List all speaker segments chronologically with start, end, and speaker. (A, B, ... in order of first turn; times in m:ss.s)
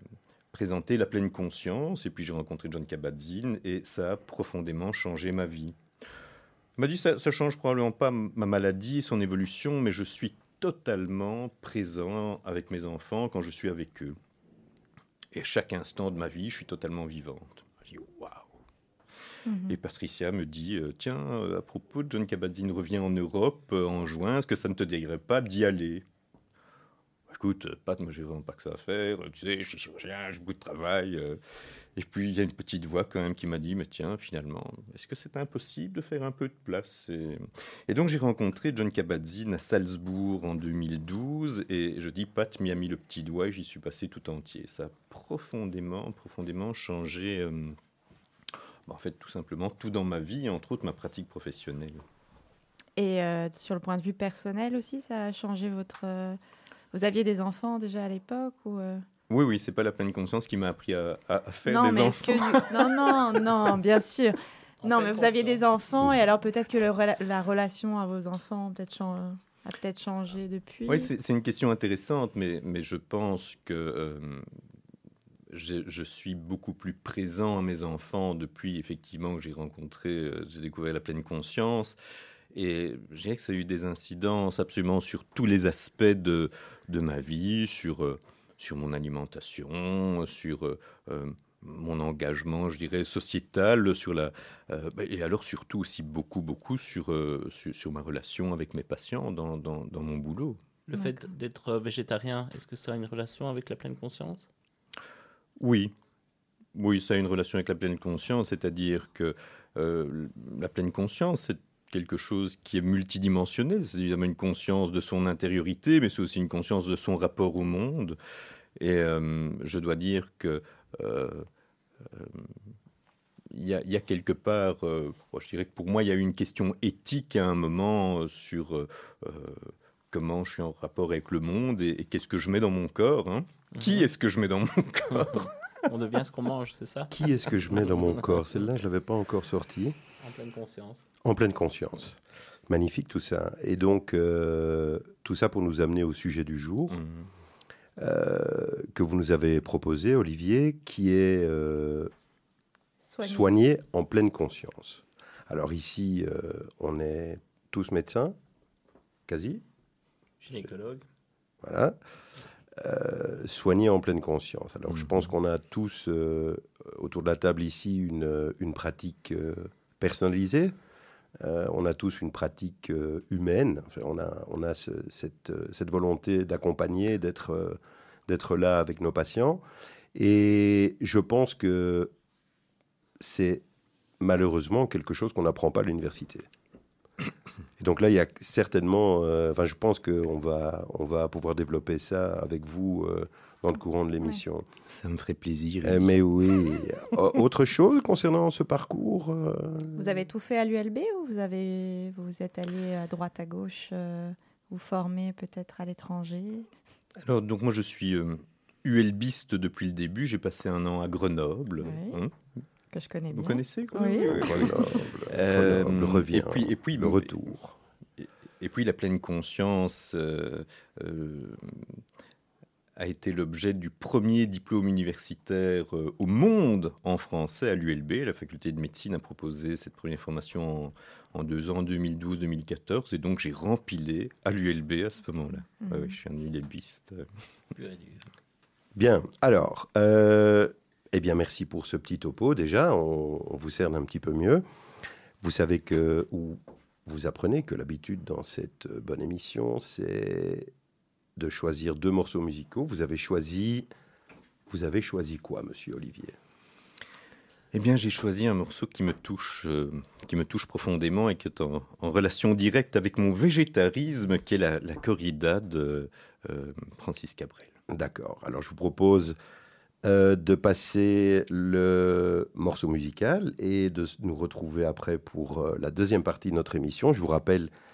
0:00.5-0:05.8 A
0:06.8-0:14.2 A
0:15.3-0:18.5 A
0:19.5-0:19.8 B
0:19.7-0:26.0 A
0:27.3-0:31.4 A
0:32.0-0:47.8 A
0:48.9-0:52.0 A
0:53.0-0:56.4 B
0:56.9-0:59.0 B
0:59.3-1:03.5 A
1:01.7-1:11.1 B
1:04.8-1:05.6 C
1:10.9-1:14.4 A
1:15.5-1:22.0 A
1:22.5-1:40.6 A
1:40.9-1:44.5 C
1:45.6-1:45.9 A
1:46.7-1:58.2 A
1:58.8-2:01.5 A
2:02.1-2:02.5 A
2:03.5-2:15.9 A
2:13.8-2:14.1 C
2:15.9-2:17.1 C
2:17.1-2:20.0 D
2:17.8-2:18.2 C
2:20.2-2:21.1 C
2:21.2-2:27.0 D
2:26.9-2:27.3 A
2:28.0-2:32.1 D
2:33.0-2:33.6 B
2:33.2-2:38.4 D
2:39.3-2:39.6 D
2:40.4-2:41.0 C
2:41.6-2:42.0 D
2:42.8-2:50.7 D
2:51.4-2:59.6 D
3:00.1-3:02.1 D
3:03.2-3:03.6 D
3:04.2-3:06.5 D
3:07.8-3:14.7 D
3:14.9-3:16.2 A
3:15.8-3:20.0 D
3:20.0-3:26.7 B
3:27.2-3:32.3 A
3:31.8-3:32.2 B
3:32.9-3:34.7 B
3:33.3-3:37.4 A
3:34.0-3:37.8 D
3:38.2-3:42.0 A
3:43.0-3:57.2 A
3:55.8-3:56.2 B
3:57.7-3:58.2 C
3:59.0-4:04.6 D
4:05.4-4:10.7 D
4:11.4-4:13.9 D
4:14.7-4:16.4 D
4:17.7-4:27.7 A
4:27.9-4:29.4 D
4:30.0-4:37.7 D